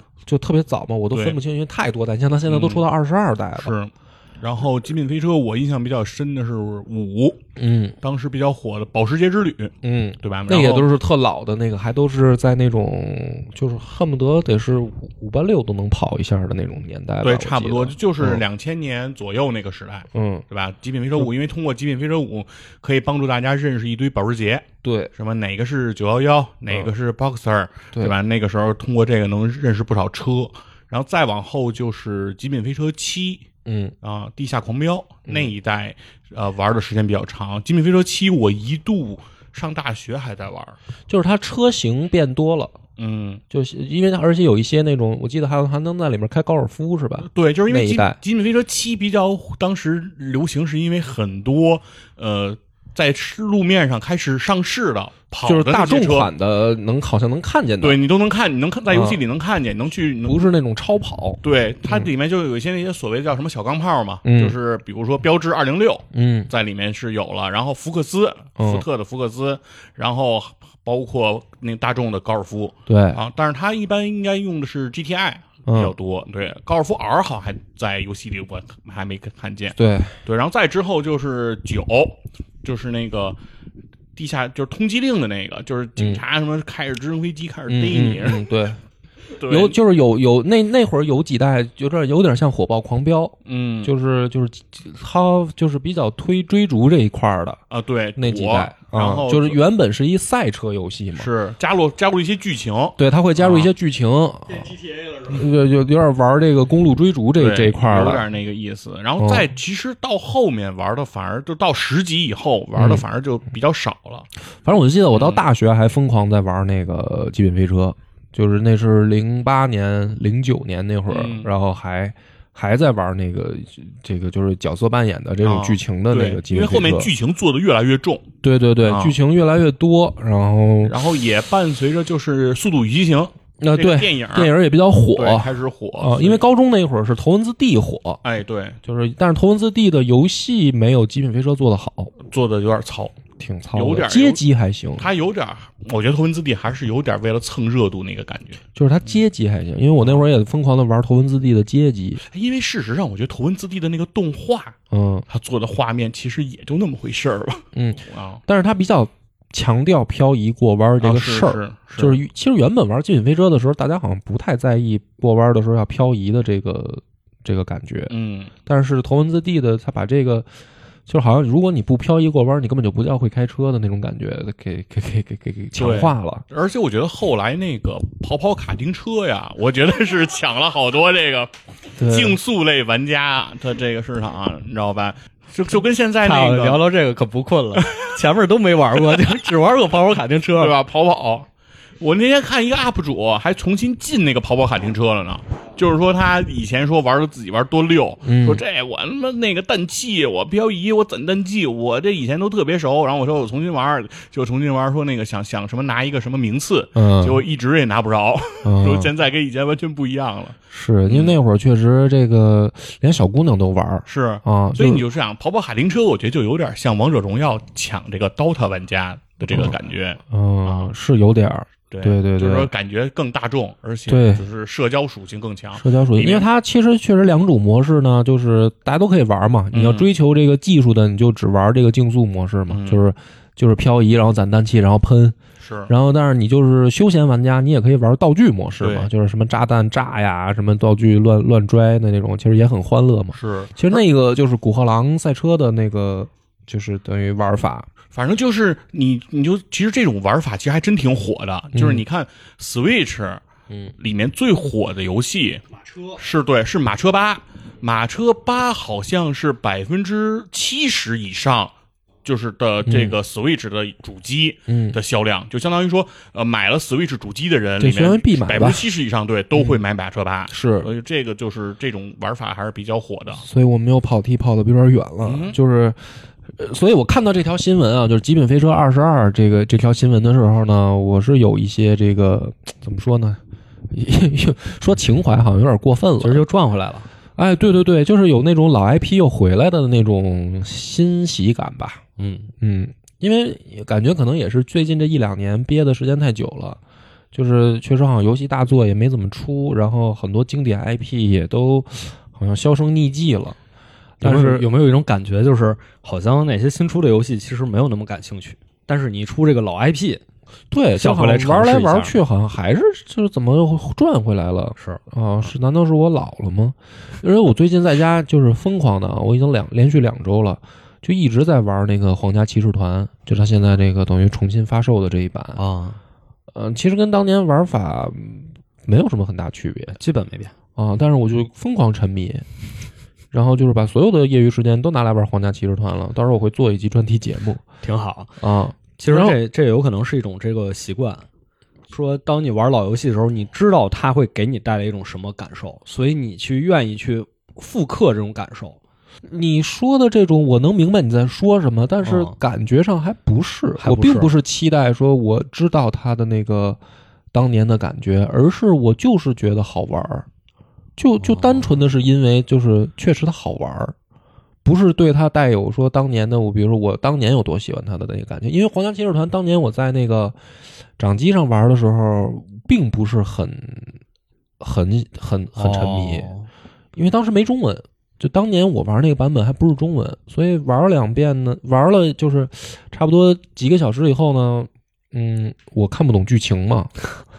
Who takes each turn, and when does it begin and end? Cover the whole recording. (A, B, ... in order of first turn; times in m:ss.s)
0:00.3-0:03.7 A
0:01.1-0:01.4 B
0:02.5-0:02.8 B
0:03.6-0:07.4 B
0:07.6-0:08.0 A
0:08.0-0:10.9 B
0:09.8-0:18.4 A
0:17.2-0:33.4 B
0:20.1-0:20.4 A
0:24.8-0:25.1 A
0:33.6-0:34.0 A
0:34.0-0:40.8 B
0:41.1-0:42.8 A
0:43.0-0:43.4 B
0:43.5-0:48.2 A
0:47.3-0:56.3 B
0:55.4-0:58.0 A
0:57.8-1:00.5 B
0:58.9-0:59.2 A
1:00.2-1:02.1 A
1:01.4-1:23.4 B
1:04.2-1:04.6 A
1:06.1-1:06.5 A
1:08.6-1:08.8 A
1:12.9-1:13.2 A
1:15.7-1:16.0 A
1:19.8-1:20.2 A
1:24.2-1:28.4 B
1:26.0-1:26.2 A
1:27.7-1:28.8 A
1:29.4-1:29.8 B
1:29.5-1:37.6 A
1:33.5-1:33.9 B
1:37.7-1:39.6 B
1:38.2-1:41.3 A
1:41.2-1:43.7 B
1:43.0-1:48.3 A
1:47.4-1:54.3 B
1:49.2-1:49.5 A
1:52.8-1:53.0 A
1:54.6-2:07.1 A
1:55.1-1:55.4 B
2:01.1-2:01.5 B
2:05.4-2:08.3 B
2:08.4-2:11.0 A
2:08.8-2:09.2 B
2:10.8-2:14.5 B
2:13.6-2:18.2 A
2:15.2-2:16.4 B
2:18.2-2:18.8 B
2:18.8-2:22.1 A
2:22.2-2:23.2 B
2:23.4-2:25.1 A
2:23.7-2:24.4 B
2:25.0-2:28.6 B
2:28.8-2:32.2 A
2:32.3-2:34.8 B
2:34.9-2:35.3 A
2:35.3-2:38.4 B
2:37.8-2:48.1 A
2:41.0-2:42.2 B
2:48.1-2:48.5 B
2:48.7-2:50.5 A
2:51.1-2:56.4 A
2:55.8-3:06.8 B
3:02.0-3:02.4 A
3:06.2-3:10.8 C
3:07.8-3:08.2 B
3:09.1-3:09.4 B
3:10.6-3:11.5 B
3:12.0-3:31.4 B
3:18.2-3:18.6 A
3:27.0-3:27.4 A
3:28.6-3:29.1 A
3:30.7-3:35.0 A
3:34.1-3:40.9 B
3:39.5-3:39.8 A
3:40.3-3:42.7 A
3:41.9-3:46.5 B
3:44.1-3:44.4 A
3:45.8-3:55.4 A
3:49.7-3:50.1 B
3:52.7-3:53.0 B
3:55.6-3:55.9 B
3:55.9-4:07.9 A
3:58.8-3:59.1 B
4:03.3-4:04.0 B
4:08.1-4:13.4 B
4:11.7-4:12.0 A
4:14.0-4:21.7 B
4:22.2-4:33.4 B
4:22.9-4:23.2 A
4:24.7-4:25.0 A
4:27.8-4:28.9 A
4:30.5-4:30.9 A
4:33.4-4:36.0 A
4:35.2-4:35.6 B
4:36.6-4:46.4 A
4:46.2-4:47.1 C
4:47.4-4:52.0 A
4:52.2-4:52.5 C
4:52.6-4:56.8 A
4:57.3-5:03.6 A
5:04.2-5:04.7 A
5:04.2-5:10.2 C
5:10.7-5:25.6 A
5:11.0-5:12.2 C
5:25.6-5:26.0 C
5:26.5-5:30.0 A
5:30.0-5:30.5 C
5:30.8-5:32.5 A
5:33.3-5:37.6 A
5:37.8-5:38.4 C
5:38.4-5:39.4 A
5:39.0-5:41.3 C
5:41.9-5:48.8 C
5:49.2-5:56.8 A
5:52.0-5:52.4 C
5:53.8-5:54.3 C
5:57.3-6:00.3 A
6:01.0-6:04.0 A
6:01.2-6:01.7 C
6:04.6-6:10.4 A
6:11.0-6:14.0 A
6:14.6-6:16.3 A
6:15.6-6:16.5 C
6:17.0-6:27.1 A